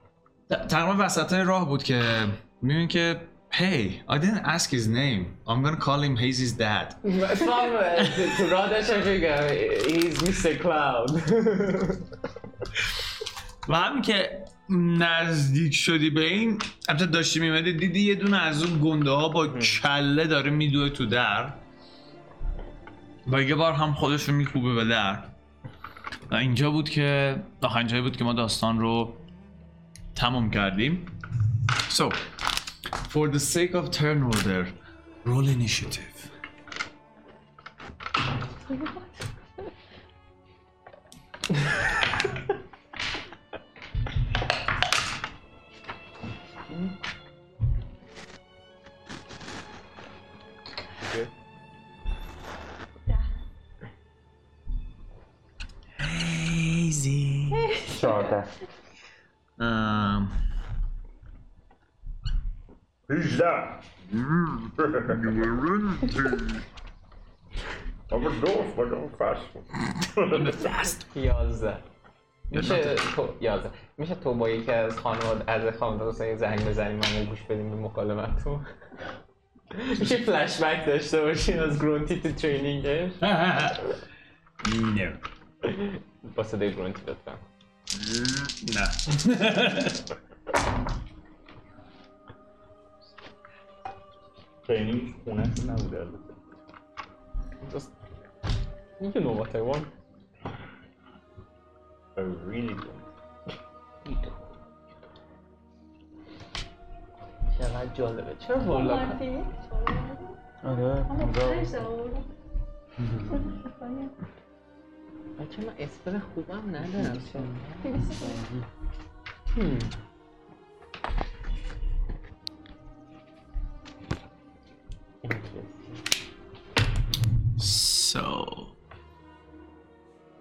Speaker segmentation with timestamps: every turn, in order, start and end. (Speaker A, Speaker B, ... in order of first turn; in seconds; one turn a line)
Speaker A: 0.5-7.5
Speaker B: 7.0-12.1
Speaker A: 8.0-8.4
Speaker A: 13.7-21.6
Speaker B: 19.5-19.8
Speaker A: 23.3-25.3
Speaker A: 26.3-29.2
Speaker A: 30.1-31.1
Speaker A: 31.9-32.2
Speaker A: 33.0-36.3
Speaker C: 51.0-51.3
Speaker A: 56.0-57.7
Speaker D: 57.5-58.4
Speaker E: 57.9-58.5
Speaker A: 59.6-60.3
Speaker C: 63.1-63.9
Speaker A: 64.4-64.6
Speaker C: 64.8-65.5
Speaker A: 65.2-66.6
Speaker C: 68.1-70.7
Speaker A: 70.3-71.0
Speaker B: 71.0-71.8
Speaker B: 72.5-78.7
Speaker A: 72.5-73.0
Speaker B: 79.7-83.2
Speaker A: 83.2-83.8
Speaker A: 84.6-85.2
Speaker B: 85.6-87.4
Speaker A: 88.2-90.0
Speaker C: 94.7-96.4
Speaker B: 97.6-97.9
Speaker B: 99.0-99.9
Speaker C: 102.2-103.0
Speaker B: 104.1-104.3
Speaker B: 107.6-109.2
Speaker D: 108.6-110.4
Speaker E: 110.6-111.9
Speaker D: 111.1-112.3
Speaker E: 113.0-113.4
Speaker D: 113.2-114.1
Speaker B: 115.4-117.9
Speaker E: 116.9-118.7
Speaker D: 117.8-118.4
Speaker B: 119.5-119.9
Speaker B: 125.2-125.9
Speaker A: 127.6-128.7